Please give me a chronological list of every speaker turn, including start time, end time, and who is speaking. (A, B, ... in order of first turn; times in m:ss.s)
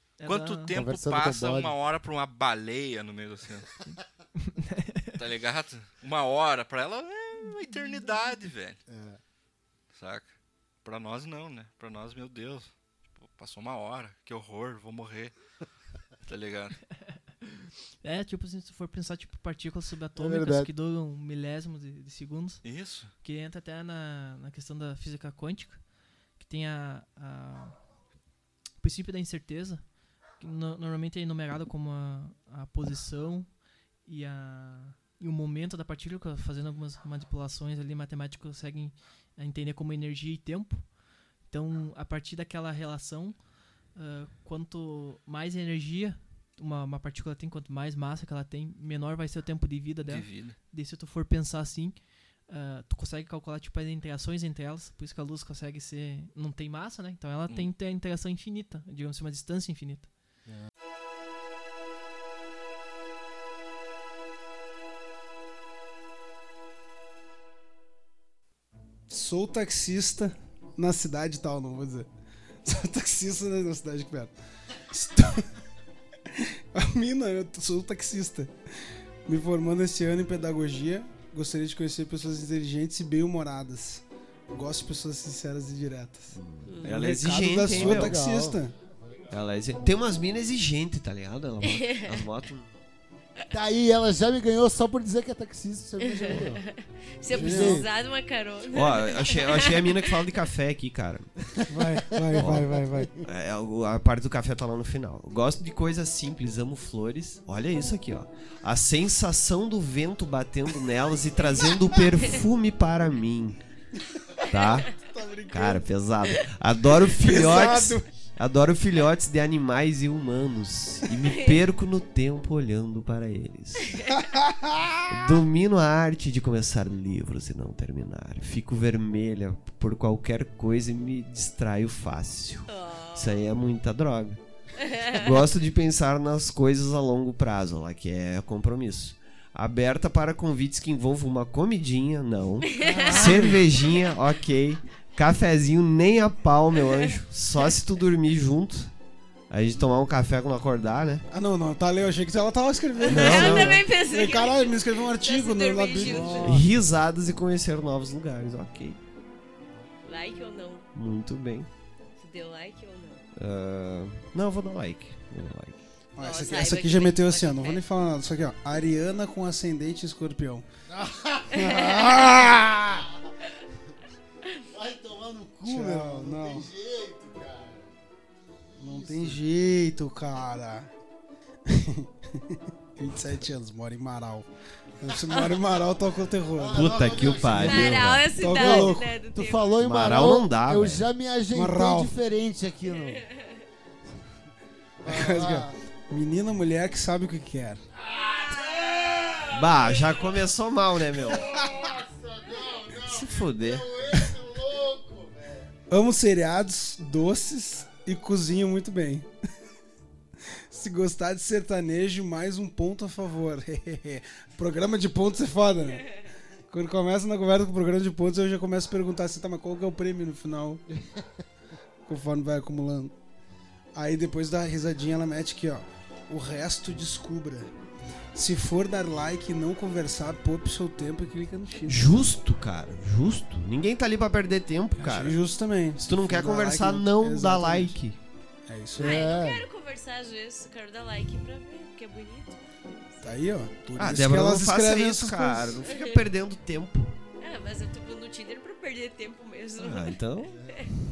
0:00.2-0:00.8 A
0:00.2-0:03.7 B
0:00.8-0:01.7 C
0:03.9-0:05.2 A
0:05.2-0:08.8 B
0:08.9-0:09.2 C
0:09.9-0:15.3 B
0:16.2-0:16.8 B
0:18.0-0:22.6 A
0:20.2-0:20.6 C
0:22.6-0:23.1 B
0:23.2-0:25.8 A
0:26.4-0:27.7 A
0:28.8-0:29.8 A
0:30.4-0:33.5 A
0:34.0-0:40.9 A
0:41.5-0:43.4 A
0:43.9-0:52.0 A
0:50.0-0:50.6 B
0:52.5-1:00.1 A
1:09.1-1:12.1 D
1:12.6-1:14.3 D
1:14.9-1:15.4 D
1:16.7-1:18.5 D
1:19.3-1:28.7 D
1:26.3-1:28.2 E
1:26.6-1:26.9 F
1:27.7-1:28.6 C
1:29.3-1:32.8 E
1:31.6-1:32.2 F
1:33.5-1:36.6 C
1:36.0-1:40.1 F
1:37.3-1:37.8 C
1:37.3-1:37.8 D
1:38.7-1:41.3 E
1:41.7-1:43.1 D
1:42.4-1:42.7 E
1:42.4-1:43.0 C
1:43.2-1:53.6 E
1:54.5-1:54.9 E
1:55.1-1:55.8 D
1:55.5-2:03.9 E
1:57.2-1:58.0 D
2:01.2-2:01.6 F
2:05.1-2:12.6 E
2:12.7-2:13.4 F
2:13.2-2:14.4 E
2:14.8-2:15.3 F
2:15.2-2:28.9 E
2:22.6-2:23.4 F
2:23.1-2:23.5 D
2:29.5-2:31.2 E
2:31.3-2:36.6 D
2:33.0-2:36.6 F
2:33.0-2:33.8 E
2:36.1-2:36.5 C
2:36.4-2:39.0 E
2:40.0-2:40.9 F
2:40.9-2:41.7 E
2:42.2-2:43.2 F
2:43.4-2:45.8 E
2:46.2-2:50.6 D
2:46.2-2:47.8 F
2:50.9-2:51.4 C
2:51.5-2:52.5 F
2:51.6-2:52.1 D
2:54.7-2:57.8 C
2:55.6-2:56.6 D
2:58.8-3:00.9 D
2:58.8-2:59.4 C
3:01.7-3:02.1 D
3:03.0-3:04.5 D
3:05.0-3:06.8 D
3:05.3-3:05.6 F
3:06.6-3:07.9 C
3:06.7-3:08.4 E
3:07.6-3:09.8 F
3:08.3-3:09.2 D
3:08.6-3:13.1 C
3:09.8-3:11.0 E
3:11.5-3:12.1 D
3:13.1-3:13.4 F
3:15.0-3:15.7 C
3:15.1-3:17.8 D
3:18.0-3:19.4 C
3:19.5-3:21.4 E
3:21.4-3:25.7 C
3:23.1-3:23.9 E
3:25.9-3:29.2 D
3:30.7-3:36.0 D
3:36.7-3:40.8 D
3:42.1-3:43.1 D
3:43.9-3:47.7 D
3:48.3-3:52.2 D
3:51.9-3:55.4 E
3:55.0-3:57.9 D
3:56.0-3:58.2 E
3:58.7-3:59.2 D
3:59.0-4:03.2 F
3:59.0-3:59.6 C
4:03.2-4:05.7 D
4:04.0-4:07.1 E
4:05.8-4:06.2 F
4:07.4-4:10.2 F
4:09.8-4:10.5 E